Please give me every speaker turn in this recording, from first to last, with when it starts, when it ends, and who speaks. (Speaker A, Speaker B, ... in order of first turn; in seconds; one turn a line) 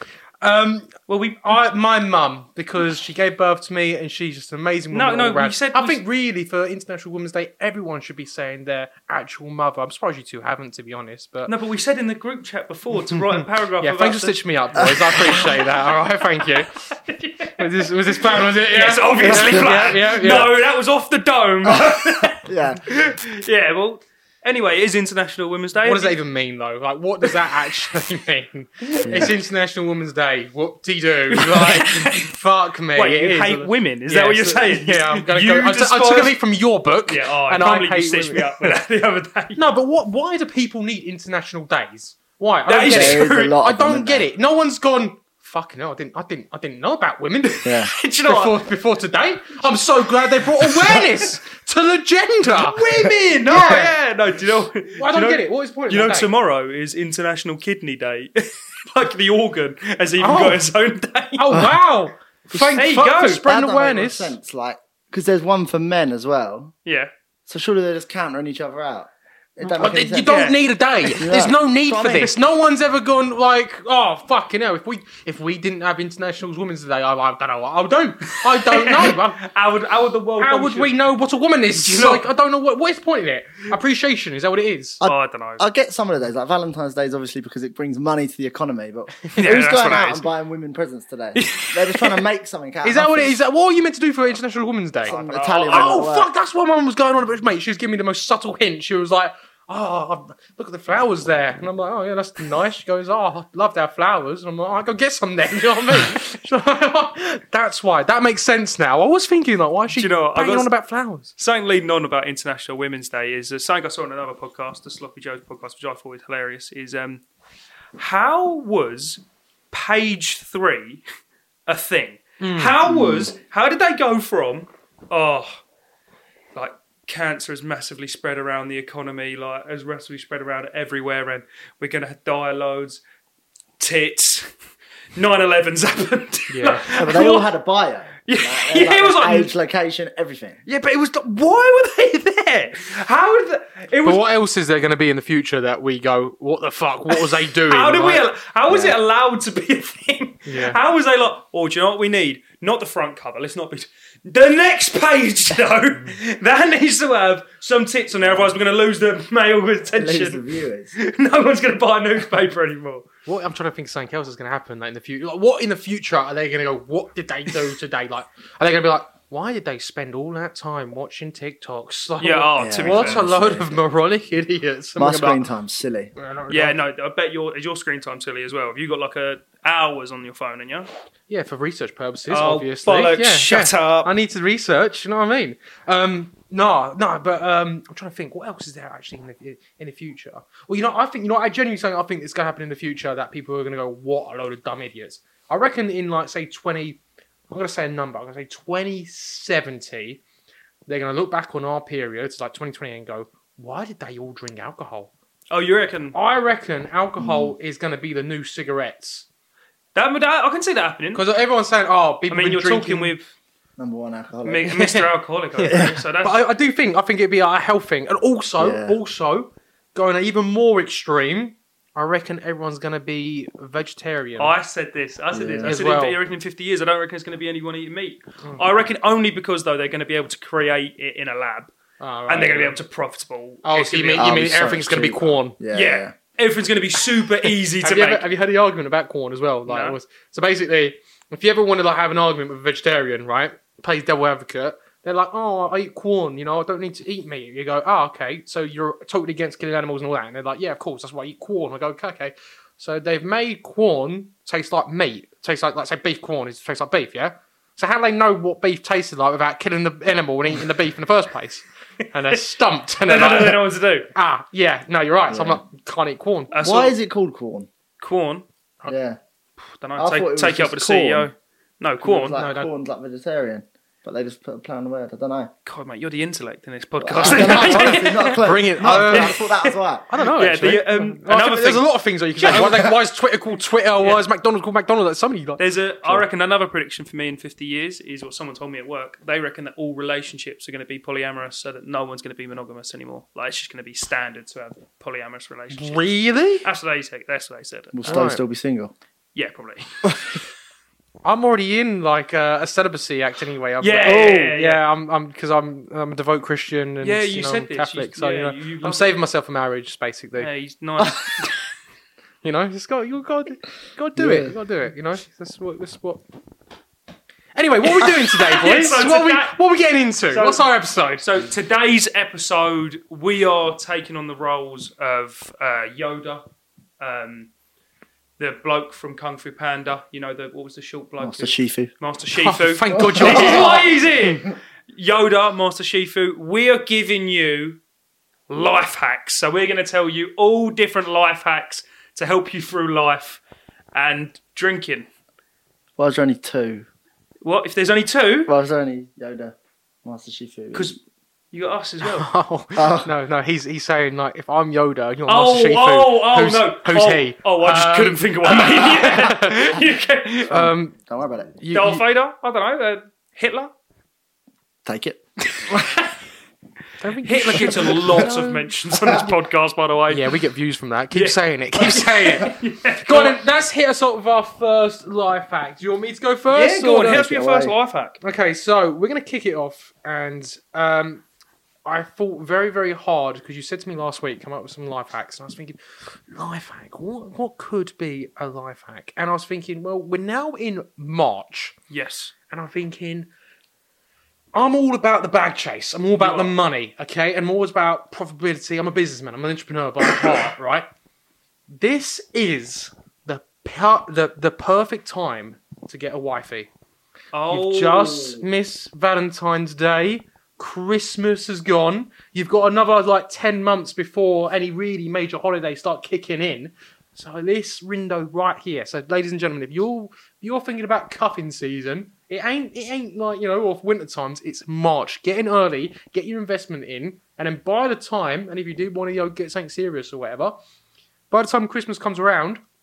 Speaker A: 0.4-0.9
Speaker B: 1.1-1.6
Speaker A: 1.4-11.5
Speaker B: 4.9-6.0
Speaker B: 11.5-15.7
Speaker A: 13.8-16.7
Speaker C: 14.7-15.5
Speaker B: 16.8-26.2
Speaker A: 17.6-20.5
Speaker C: 19.3-19.7
Speaker C: 21.6-23.0
Speaker A: 25.8-38.8
Speaker B: 27.2-27.6
Speaker C: 29.1-29.4
Speaker B: 31.3-32.3
Speaker B: 32.9-36.4
Speaker B: 37.1-39.6
Speaker A: 39.6-52.9
Speaker B: 42.7-43.6
Speaker C: 42.9-44.3
Speaker C: 47.6-47.9
Speaker B: 48.0-48.6
Speaker B: 52.5-61.5
Speaker C: 53.5-53.9
Speaker A: 53.5-53.9
Speaker A: 55.0-56.3
Speaker A: 60.2-60.7
Speaker A: 61.4-64.3
Speaker C: 61.5-61.8
Speaker C: 62.5-66.7
Speaker B: 62.7-63.4
Speaker B: 66.8-67.1
Speaker C: 67.5-70.4
Speaker A: 69.6-79.5
Speaker B: 70.2-70.6
Speaker C: 71.2-72.3
Speaker B: 78.3-80.9
Speaker A: 80.4-85.0
Speaker B: 81.7-82.2
Speaker C: 85.0-93.4
Speaker B: 85.0-85.6
Speaker B: 89.3-90.3
Speaker B: 91.3-92.2
Speaker A: 92.8-111.3
Speaker C: 95.1-96.3
Speaker B: 95.1-96.0
Speaker B: 109.9-110.7
Speaker B: 111.4-117.2
Speaker B: 118.0-119.2
Speaker B: 119.7-121.0
Speaker B: 121.7-125.6
Speaker A: 122.4-122.8
Speaker C: 122.8-123.3
Speaker B: 126.5-133.0
Speaker B: 133.8-134.5
Speaker B: 135.2-137.5
Speaker A: 136.5-136.9
Speaker C: 136.9-140.6
Speaker B: 138.2-139.5
Speaker B: 140.7-144.2
Speaker A: 144.0-148.3
Speaker B: 147.1-160.4
Speaker C: 148.7-148.9
Speaker A: 150.5-150.8
Speaker C: 160.0-160.9
Speaker B: 160.9-163.1
Speaker A: 163.3-175.4
Speaker B: 172.2-173.2
Speaker C: 172.6-173.8
Speaker C: 175.0-176.1
Speaker A: 176.2-176.8
Speaker B: 176.5-180.9
Speaker A: 181.3-197.0
Speaker B: 182.3-184.1
Speaker A: 197.5-200.2
Speaker A: 200.9-205.1
Speaker B: 205.5-206.2
Speaker A: 206.1-209.2
Speaker C: 207.2-207.5
Speaker B: 209.9-211.2
Speaker A: 211.2-213.1
Speaker B: 212.3-213.3
Speaker C: 213.8-214.8
Speaker B: 214.4-216.4
Speaker A: 214.8-215.1
Speaker A: 215.6-224.5
Speaker C: 215.7-216.0
Speaker C: 218.6-219.0
Speaker B: 224.4-231.7
Speaker C: 225.3-225.8
Speaker A: 225.7-226.2
Speaker A: 232.0-232.8
Speaker B: 232.3-234.3
Speaker A: 233.6-235.6
Speaker C: 234.2-236.2
Speaker B: 235.7-238.2
Speaker A: 237.8-266.5
Speaker B: 239.7-240.0
Speaker B: 263.1-264.1
Speaker C: 265.3-265.6
Speaker B: 266.5-266.9
Speaker C: 266.6-267.7
Speaker B: 268.0-268.5
Speaker C: 268.9-269.2
Speaker B: 269.8-272.4
Speaker C: 270.0-271.3
Speaker C: 272.0-275.5
Speaker A: 272.4-272.7
Speaker B: 275.7-278.4
Speaker C: 277.0-280.1
Speaker A: 277.3-279.4
Speaker B: 279.1-282.9
Speaker A: 280.1-286.2
Speaker C: 282.6-282.9
Speaker B: 284.0-284.3
Speaker B: 285.6-296.0
Speaker A: 295.7-296.7
Speaker B: 296.6-298.2
Speaker C: 297.9-298.9
Speaker A: 298.1-298.4
Speaker B: 299.4-300.2
Speaker A: 301.2-310.5
Speaker B: 303.8-304.8
Speaker C: 304.1-304.5
Speaker B: 307.0-309.2
Speaker B: 310.4-311.5
Speaker A: 312.4-316.2
Speaker C: 314.2-314.6
Speaker A: 317.6-321.3
Speaker B: 317.9-319.6
Speaker B: 320.3-326.4
Speaker B: 327.0-327.5
Speaker B: 328.4-337.8
Speaker C: 331.2-331.9
Speaker A: 332.3-334.2
Speaker C: 332.9-333.8
Speaker B: 338.5-343.4
Speaker B: 343.9-345.1
Speaker C: 346.0-346.9
Speaker B: 347.4-348.5
Speaker C: 348.5-351.0
Speaker B: 351.5-352.3
Speaker A: 352.0-359.7
Speaker C: 352.7-353.1
Speaker B: 355.3-360.6
Speaker A: 360.5-360.9
Speaker C: 360.5-361.5
Speaker A: 361.6-362.0
Speaker B: 361.7-363.7
Speaker C: 364.9-365.2
Speaker B: 365.5-366.1
Speaker A: 367.0-368.7
Speaker B: 367.2-370.3
Speaker A: 370.1-372.5
Speaker B: 371.1-373.4
Speaker A: 373.1-377.2
Speaker B: 376.5-378.2
Speaker C: 377.1-377.8
Speaker A: 378.2-381.2
Speaker A: 381.9-391.8
Speaker B: 391.9-392.3
Speaker A: 392.5-393.3
Speaker A: 394.5-400.9
Speaker B: 396.2-396.5
Speaker A: 401.8-406.7
Speaker B: 407.3-408.4
Speaker A: 407.5-430.5
Speaker A: 431.3-432.6